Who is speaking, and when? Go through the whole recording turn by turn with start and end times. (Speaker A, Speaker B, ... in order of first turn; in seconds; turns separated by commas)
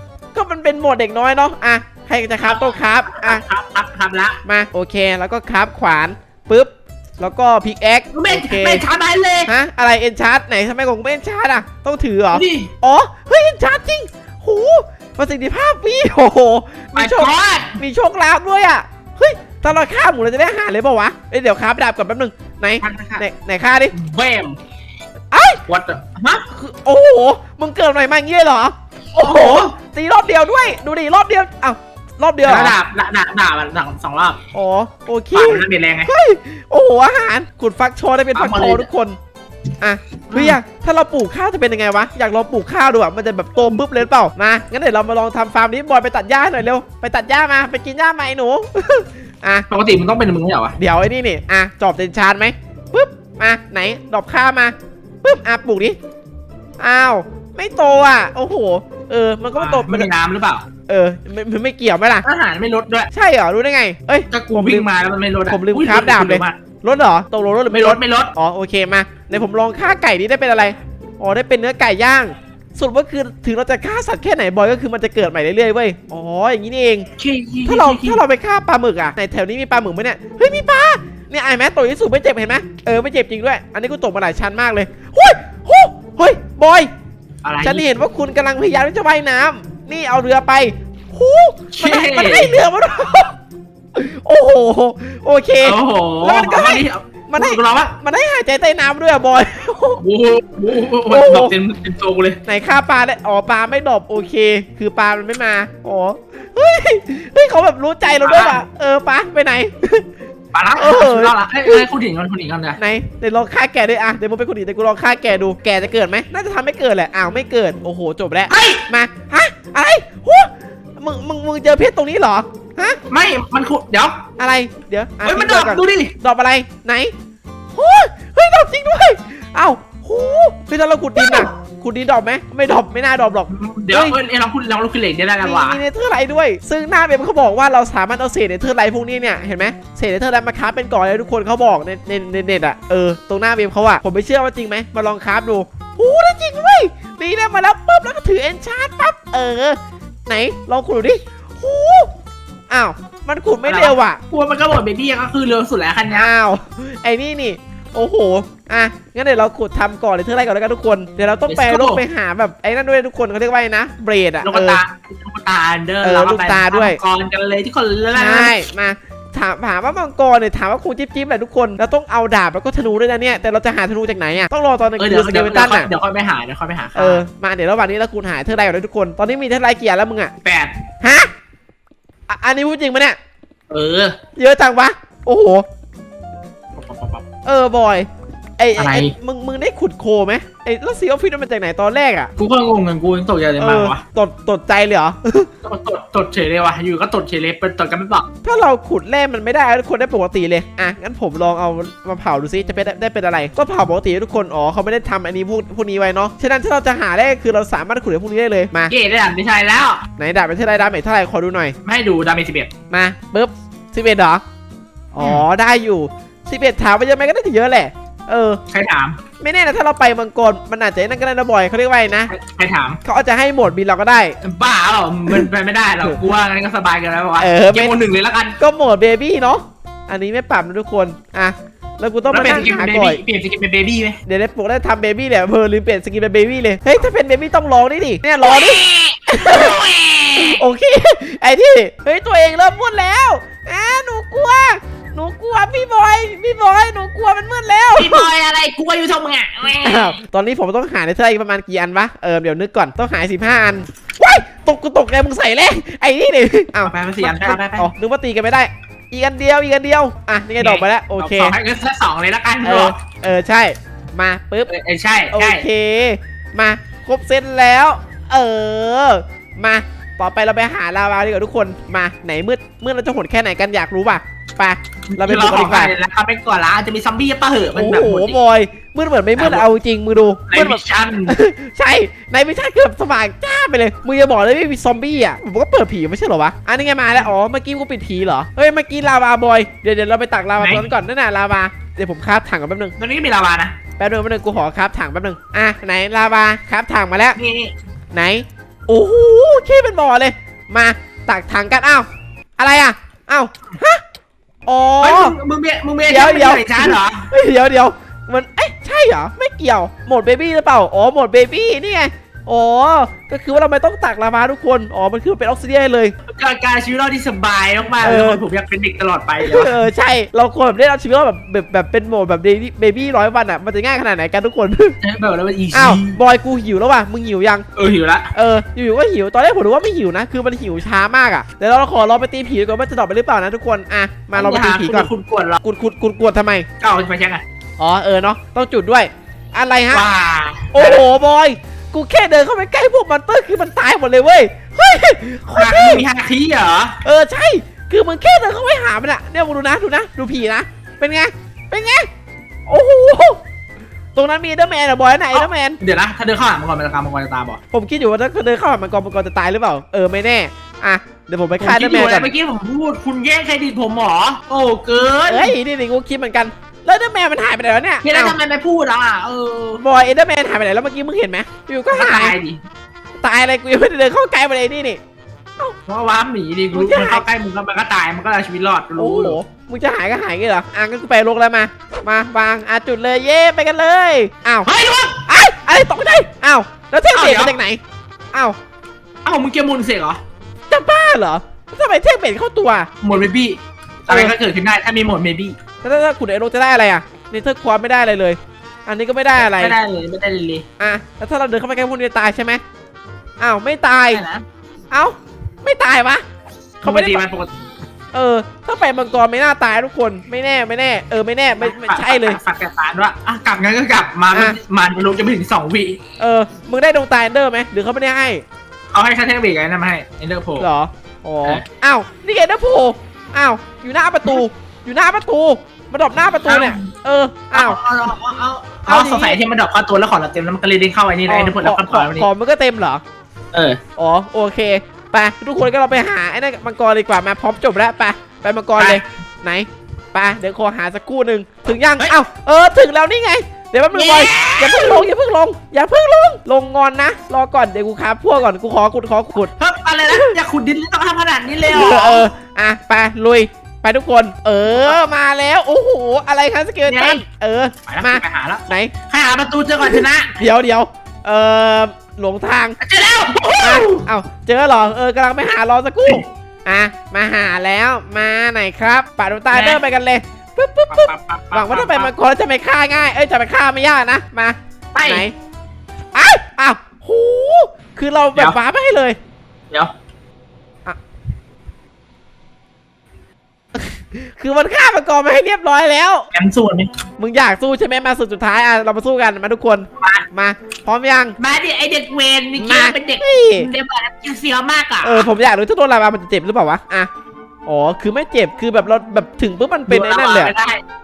Speaker A: 0.3-3.4, Speaker B: 2.4-4.4, Speaker A: 4.5-8.8, Speaker B: 8.1-9.5, Speaker A: 9.5-23.9, Speaker B: 12.3-12.7, Speaker B: 17.0-17.8, Speaker B: 22.8-23.2, Speaker B: 23.9-24.6, Speaker A: 25.3-25.6, Speaker B: 25.7-26.4, Speaker A: 26.5-32.8, Speaker B: 29.2-29.7, Speaker B: 32.4-34.4, Speaker A: 34.5-39.2, Speaker B: 35.3-36.1, Speaker B: 38.4-38.9, Speaker A: 39.8-49.7, Speaker B: 40.3-40.6, Speaker B: 49.7-50.8, Speaker A: 50.8-56.0, Speaker A: 56.8-60.1, Speaker B: 59.5-60.6, Speaker A: 60.9-62.3, Speaker B: 62.2-63.1, Speaker A: 63.1-64.9, Speaker B: 64.3-66.6, Speaker A: 65.5-77.1, Speaker B: 67.7-68.3, Speaker B: 77.2-78.2, Speaker A: 77.7-86.9, Speaker B: 87.4-87.8, Speaker A: 87.6-93.3, Speaker B: 91.7-92.5, Speaker A: 93.9-100.0, Speaker B: 95.6-98.0, Speaker B: 100.0-102.4, Speaker A: 101.1-101.5, Speaker A: 102.5-110.1, Speaker B: 108.2-108.6, Speaker B: 110.5-112.8, Speaker A: 110.8-111.9, Speaker A: 112.8-123.0, Speaker B: 118.5-118.8, Speaker B: 123.1-124.2, Speaker A: 124.4-127.1, Speaker B: 125.2-126.1, Speaker A: 127.7-134.2, Speaker B: 131.2-131.5, Speaker B: 133.5-135.8, Speaker A: 135.4-152.1, Speaker A: 152.7-154.2, Speaker B: 153.6-156.3, Speaker A: 156.1-164.8, Speaker B: 161.5-162.0, Speaker B: 164.4-168.6, Speaker A: 166.0-167.0, Speaker A: 168.1-175.9, Speaker B: 175.0-177.2, Speaker A: 177.0-180.3, Speaker B: 180.4-180.7, Speaker A: 181.0-181.3, Speaker A: 182.3-183.2, Speaker B: 183.7-184.2, Speaker A: 184.4-185.7, Speaker B: 186.8-187.2, Speaker A: 187.5-192.3, Speaker B: 188.8-189.1, Speaker B: 192.4-194.0, Speaker A: 193.6-195.5, Speaker B: 195.6-198.3, Speaker A: 198.4-208.9, Speaker B: 208.9-210.0, Speaker A: 210.2-211.8, Speaker B: 211.8-212.7, Speaker A: 212.9-214.4, Speaker A: 215.1-218.6, Speaker B: 215.2-215.5, Speaker B: 218.7-219.2, Speaker A: 219.4-222.3, Speaker B: 222.3-223.0, Speaker A: 223.0-224.4, Speaker B: 224.4-228.6, Speaker A: 227.4-228.0, Speaker A: 228.6-233.2, Speaker B: 232.3-234.2, Speaker A: 234.3-239.8, Speaker B: 238.4-240.6, Speaker A: 240.4-248.3, Speaker B: 248.0-250.2, Speaker A: 249.8-261.6, Speaker B: 256.8-257.9, Speaker B: 260.6-262.9, Speaker A: 262.6-264.7, Speaker B: 264.7-265.7, Speaker A: 265.3-275.9, Speaker B: 275.1-278.4, Speaker A: 277.7-292.9, Speaker B: 279.4-279.7, Speaker B: 280.5-281.4, Speaker B: 290.6-290.8, Speaker B: 293.0-293.8, Speaker A: 294.0-297.4, Speaker B: 297.4-297.7, Speaker A: 298.1-302.1, Speaker A: 302.6-304.0, Speaker A: 304.7-305.4, Speaker B: 305.0-307.3, Speaker A: 306.1-316.1, Speaker B: 316.2-319.8, Speaker A: 318.0-318.4, Speaker A: 319.4-325.0, Speaker B: 325.0-326.2, Speaker A: 325.7-327.7, Speaker B: 327.8-328.3, Speaker A: 328.3-335.1, Speaker B: 334.3-335.6, Speaker A: 335.6-336.7, Speaker B: 336.8-337.4, Speaker A: 337.8-340.1, Speaker B: 339.9-341.0, Speaker A: 340.7-346.0, Speaker B: 345.6-347.0, Speaker A: 347.0-352.1, Speaker A: 352.7-353.4, Speaker A: 354.1-355.8, Speaker B: 355.3-357.6, Speaker A: 357.7-362.3, Speaker B: 361.6-365.6, Speaker A: 365.3-368.4, Speaker B: 368.0-369.8, Speaker A: 369.8-372.4, Speaker B: 371.9-372.6, Speaker A: 373.2-375.0, Speaker B: 375.9-379.4, Speaker A: 376.7-377.2, Speaker A: 379.0-384.7, Speaker B: 384.6-385.3, Speaker A: 385.3-387.8, Speaker B: 387.1-387.6, Speaker B: 389.2-390.2, Speaker A: 390.7-392.9, Speaker B: 393.0-395.6, Speaker A: 394.1-394.4, Speaker A: 395.8-399.8, Speaker B: 399.4-400.6, Speaker A: 400.8-402.6, Speaker A: 403.4-404.2, Speaker B: 404.1-404.4, Speaker A: 404.9-406.2, Speaker A: 406.8-407.2, Speaker B: 406.8-407.6, Speaker A: 408.1-412.4, Speaker B: 411.6-416.0, Speaker A: 416.2-418.4, Speaker B: 418.9-420.7, Speaker A: 420.6-427.8, Speaker B: 426.5-426.9, Speaker B: 427.5-432.3, Speaker A: 428.9-429.4, Speaker A: 431.3-433.0, Speaker B: 433.5-433.8, Speaker A: 434.0-449.5, Speaker B: 438.8-439.0, Speaker B: 443.9-445.1, Speaker B: 449.6-452.2, Speaker A: 450.1-450.4, Speaker A: 451.6-458.9, Speaker B: 454.7-455.0, Speaker B: 456.9-457.2, Speaker B: 457.9-460.4, Speaker A: 459.8-462.8, Speaker B: 462.8-464.1, Speaker A: 463.6-475.3, Speaker B: 469.5-469.8, Speaker B: 470.9-472.1, Speaker B: 474.9-475.3, Speaker A: 476.1-479.2, Speaker A: 483.7-486.3, Speaker B: 486.3-486.9, Speaker A: 487.2-491.4, Speaker B: 491.4-495.3, Speaker A: 492.6-493.7, Speaker A: 495.0-497.1, Speaker A: 497.7-500.5, Speaker B: 499.9-500.8